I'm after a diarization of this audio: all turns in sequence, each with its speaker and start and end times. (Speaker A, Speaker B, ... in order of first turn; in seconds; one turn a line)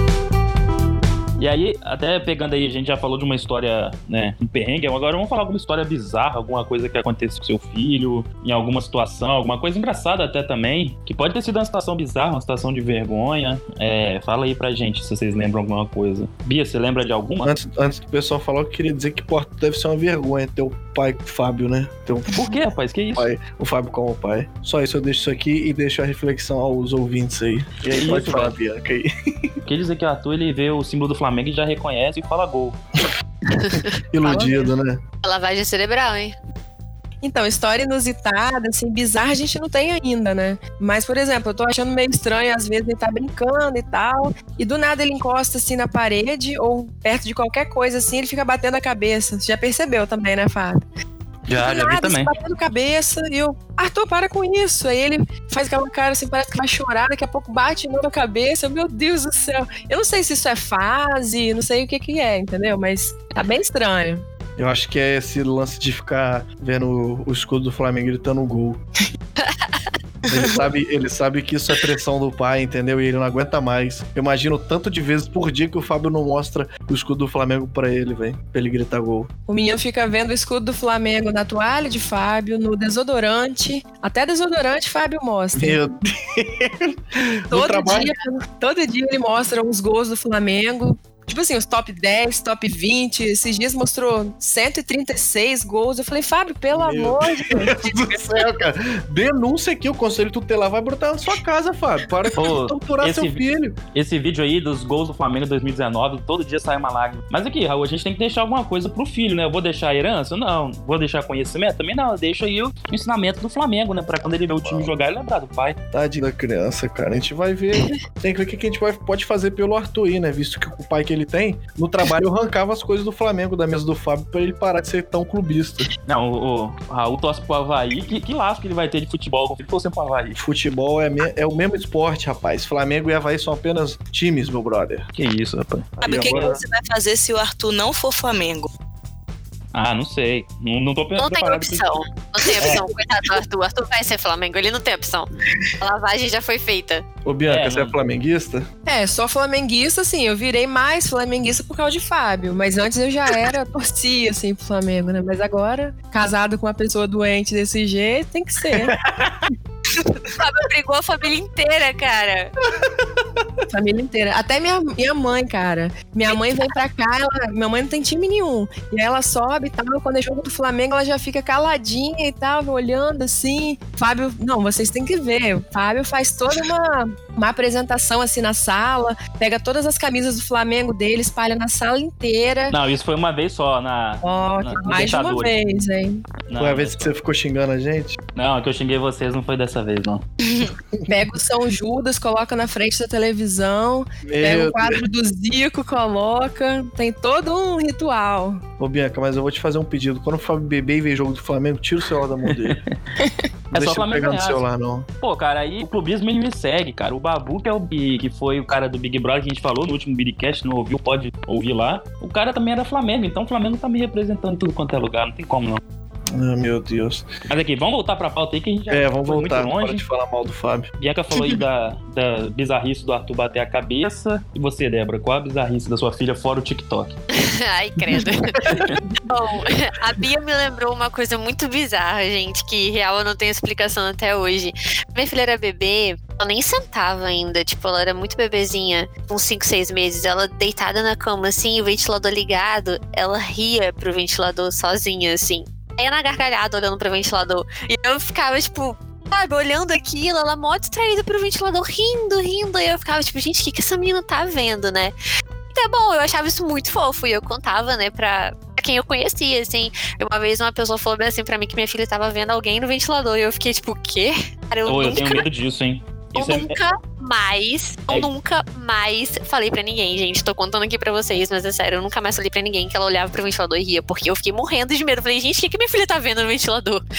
Speaker A: 1.4-17.5
Speaker B: 17.4-22.4
Speaker A: 22.3-23.3
Speaker B: 23.1-29.1
Speaker A: 27.9-28.5
Speaker A: 29.6-32.8
Speaker C: 33.5-34.7
Speaker B: 34.1-35.0
Speaker C: 35.2-36.4
Speaker D: 37.2-50.8
Speaker A: 51.5-52.3
Speaker D: 51.6-64.2
Speaker B: 64.6-68.8
Speaker E: 70.3-70.6
Speaker B: 70.3-79.3
Speaker D: 79.5-85.8
Speaker B: 85.5-88.1
Speaker D: 87.5-98.2
Speaker B: 96.7-103.8
Speaker A: 102.3-103.4
Speaker A: 103.9-115.8
Speaker B: 114.6-114.9
Speaker B: 115.9-125.9
Speaker A: 126.1-130.4
Speaker B: 130.3-135.0
Speaker A: 135.2-136.6
Speaker E: 136.0-138.7
Speaker B: 136.0-136.6
Speaker A: 139.7-141.8
Speaker C: 141.2-145.3
Speaker C: 145.8-147.0
Speaker B: 147.2-148.7
Speaker A: 147.5-147.9
Speaker D: 148.9-158.9
Speaker B: 158.7-159.5
Speaker C: 160.4-162.5
Speaker B: 162.8-163.2
Speaker D: 163.7-182.7
Speaker A: 182.7-185.5
Speaker D: 184.2-186.2
Speaker A: 186.4-187.1
Speaker B: 186.6-188.2
Speaker A: 188.3-190.2
Speaker D: 191.1-198.6
Speaker B: 194.2-195.0
Speaker B: 198.8-202.8
Speaker A: 202.4-202.9
Speaker A: 203.7-204.6
Speaker B: 203.7-205.1
Speaker A: 205.2-215.8
Speaker B: 216.3-217.3
Speaker A: 217.5-220.0
Speaker B: 218.9-221.6
Speaker A: 221.0-227.2
Speaker C: 227.3-228.6
Speaker B: 228.1-228.8
Speaker C: 229.2-255.1
Speaker C: 255.7-265.4
Speaker A: 264.9-266.8
Speaker C: 266.3-277.0